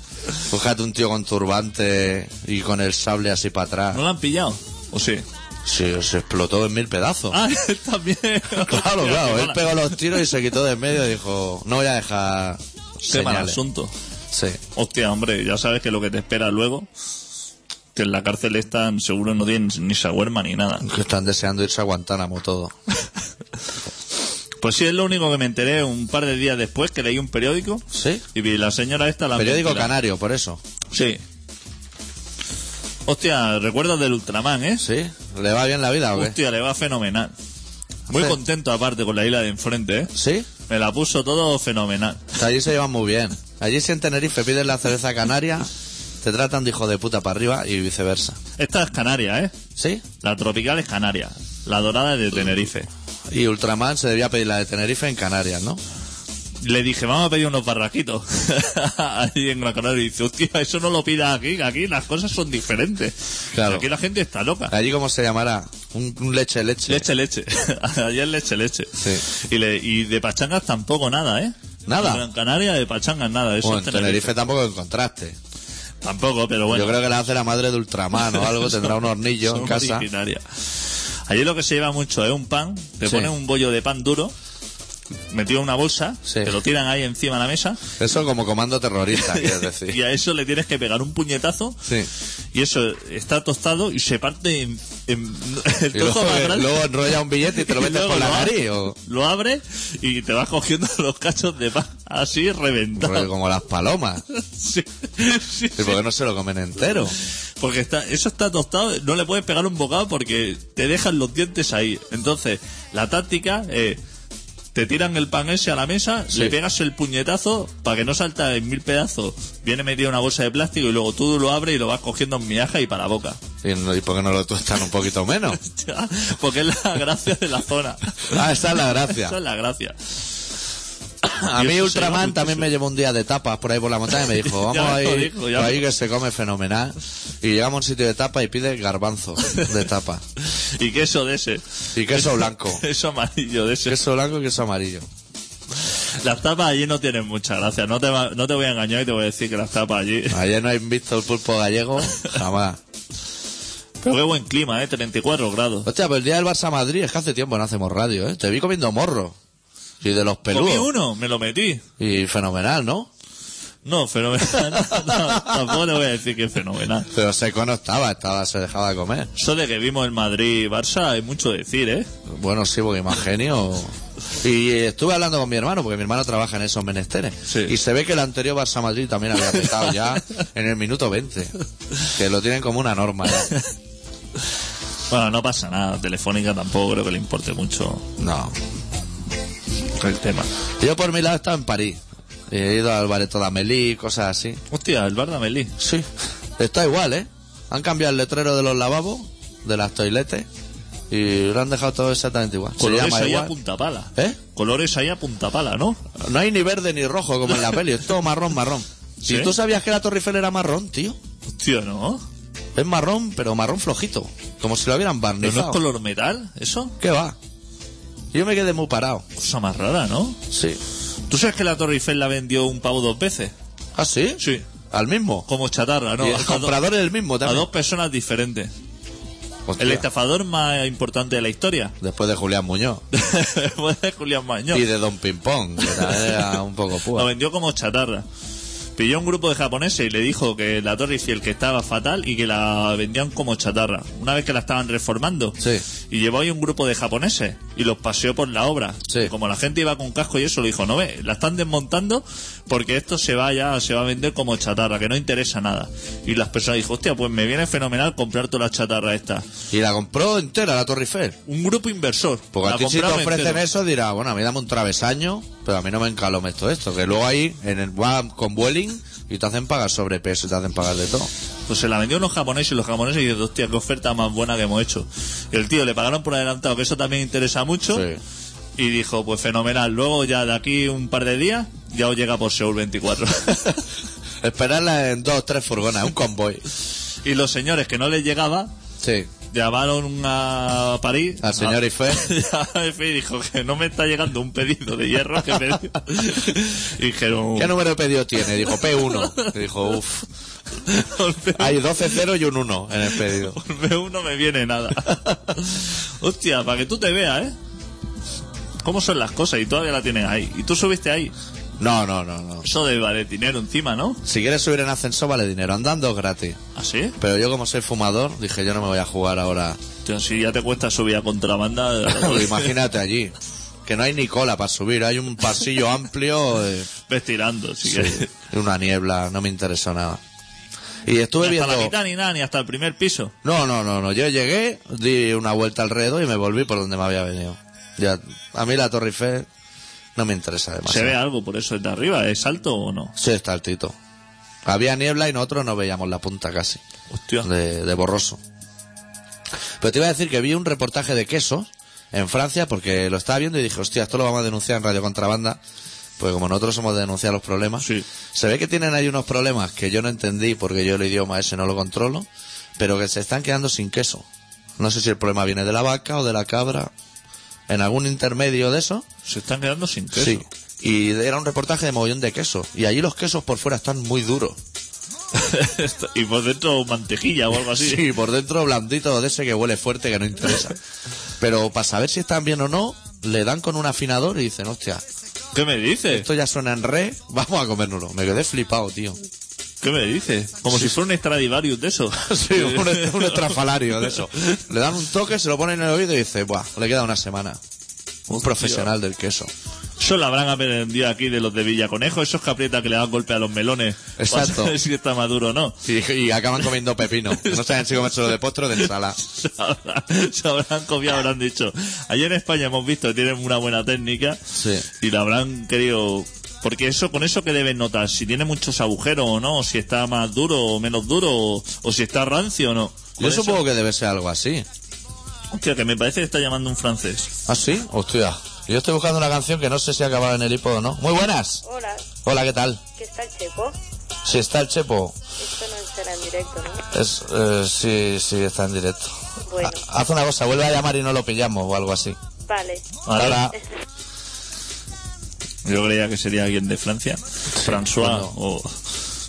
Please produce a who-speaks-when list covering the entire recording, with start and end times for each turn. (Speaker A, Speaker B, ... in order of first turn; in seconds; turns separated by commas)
Speaker A: 0.5-4.0, Speaker B: 3.9-5.2, Speaker A: 5.7-7.4, Speaker B: 7.3-9.9, Speaker A: 8.5-13.6, Speaker B: 13.1-13.9, Speaker A: 14.3-14.6, Speaker B: 14.8-16.9, Speaker B: 17.9-20.9, Speaker A: 20.8-22.7, Speaker B: 24.6-29.9, Speaker A: 27.9-28.2, Speaker A: 29.4-30.6, Speaker B: 30.9-31.2, Speaker B: 33.1-34.9, Speaker A: 34.8-36.4, Speaker B: 36.1-37.3, Speaker B: 38.1-40.1, Speaker A: 38.1-38.4, Speaker A: 40.1-40.5, Speaker B: 40.7-42.3, Speaker A: 42.3-45.7, Speaker A: 46.2-48.4, Speaker B: 48.6-49.5, Speaker A: 49.8-50.0, Speaker B: 50.2-52.9, Speaker A: 53.3-55.8, Speaker B: 56.6-64.7, Speaker A: 63.5-63.9, Speaker A: 64.7-67.1, Speaker B: 66.9-74.4, Speaker A: 69.0-69.2, Speaker A: 71.9-72.2, Speaker A: 73.6-75.4, Speaker B: 76.0-77.0, Speaker A: 76.7-80.1, Speaker B: 79.4-80.4, Speaker B: 81.3-84.3, Speaker A: 83.0-83.3, Speaker B: 85.3-87.8, Speaker A: 86.3-86.5, Speaker A: 88.0-90.0, Speaker B: 89.2-91.8, Speaker B: 92.5-96.8, Speaker A: 95.9-99.0, Speaker B: 97.5-103.3, Speaker A: 103.0-104.2, Speaker B: 104.3-106.0, Speaker A: 105.8-107.2, Speaker B: 107.6-114.0, Speaker B: 114.7-123.4, Speaker A: 123.6-125.6, Speaker B: 125.6-128.4, Speaker A: 128.3-129.4, Speaker B: 129.1-130.0, Speaker A: 131.2-140.2, Speaker B: 131.5-132.7, Speaker B: 134.4-135.8, Speaker B: 140.4-144.0, Speaker A: 141.9-142.8, Speaker A: 143.9-145.1, Speaker B: 146.2-150.4, Speaker A: 150.3-152.8, Speaker B: 154.0-155.9, Speaker A: 155.9-159.4, Speaker A: 160.0-160.9, Speaker B: 160.5-161.8, Speaker A: 162.0-163.1, Speaker B: 163.8-167.1, Speaker A: 167.1-169.3, Speaker B: 169.4-172.1, Speaker A: 172.3-183.5, Speaker B: 177.5-177.7, Speaker B: 185.1-188.1, Speaker A: 188.2-188.6, Speaker B: 190.0-190.5, Speaker A: 190.8-194.6, Speaker B: 194.7-195.7, Speaker A: 195.8-200.5, Speaker A: 201.1-203.5, Speaker B: 202.8-206.0, Speaker A: 206.2-211.2, Speaker B: 209.2-209.6, Speaker B: 211.5-212.2, Speaker A: 212.8-215.8, Speaker B: 215.4-217.0, Speaker A: 217.0-217.4, Speaker A: 218.3-219.2, Speaker B: 219.4-220.4, Speaker A: 220.5-220.8, Speaker B: 221.3-223.5, Speaker A: 223.9-225.5, Speaker B: 224.4-224.7, Speaker B: 225.5-226.8, Speaker A: 226.2-227.7, Speaker B: 227.4-228.7, Speaker A: 229.7-230.1, Speaker B: 229.8-231.9, Speaker A: 232.0-233.0, Speaker B: 233.1-234.9, Speaker A: 234.7-237.3, Speaker B: 235.9-236.5, Speaker B: 237.1-238.3, Speaker B: 239.0-245.6, Speaker B: 246.1-259.5, Speaker A: 259.7-261.4, Speaker B: 261.5-263.6, Speaker A: 262.5-271.3, Speaker B: 271.7-278.1, Speaker A: 277.9-278.2, Speaker B: 278.8-283.8, Speaker A: 284.4-286.6, Speaker B: 287.2-288.7, Speaker A: 289.0-289.3, Speaker B: 289.5-297.7, Speaker A: 291.4-292.2, Speaker A: 297.6-300.2, Speaker B: 298.7-299.6, Speaker B: 300.9-301.8, Speaker A: 301.6-303.6, Speaker B: 303.3-307.6, Speaker B: 308.8-311.3, Speaker A: 311.8-312.7, Speaker B: 312.6-314.2, Speaker A: 314.2-316.6, Speaker B: 316.8-317.2, Speaker A: 317.2-319.8, Speaker B: 320.1-322.7, Speaker A: 322.1-323.4, Speaker A: 323.9-326.9, Speaker B: 327.1-328.3, Speaker A: 327.9-330.2, Speaker A: 331.1-331.9, Speaker B: 331.4-333.3, Speaker A: 333.4-339.5, Speaker A: 340.2-341.2, Speaker B: 340.9-343.1, Speaker A: 343.2-344.0, Speaker A: 344.6-346.8, Speaker B: 347.1-347.5, Speaker A: 347.4-348.4, Speaker A: 349.8-355.6, Speaker A: 356.2-362.3, Speaker A: 362.8-364.3, Speaker A: 364.8-366.9, Speaker A: 367.7-369.1, Speaker B: 369.2-370.5, Speaker A: 370.1-374.6, Speaker B: 375.3-378.1, Speaker A: 377.7-380.8, Speaker A: 381.4-385.0, Speaker B: 385.5-386.3, Speaker A: 386.1-389.2, Speaker B: 389.8-393.6, Speaker A: 392.1-397.6, Speaker B: 398.3-398.9, Speaker A: 398.4-399.5, Speaker B: 400.0-405.8, Speaker A: 404.2-404.8, Speaker A: 405.9-409.2, Speaker B: 407.4-407.8, Speaker B: 408.8-414.4, Speaker A: 414.5-414.9, Speaker B: 415.0-423.6, Speaker A: 423.2-424.7, Speaker B: 425.5-427.3, Speaker A: 427.5-431.6, Speaker C: 431.7-432.0, Speaker A: 432.2-432.8, Speaker C: 433.0-433.8, Speaker A: 434.2-435.2, Speaker C: 435.4-436.8, Speaker A: 436.9-442.2, Speaker C: 442.5-442.8, Speaker B: 443.1-443.5, Speaker A: 443.1-443.6, Speaker B: 445.6-448.8, Speaker A: 447.6-448.4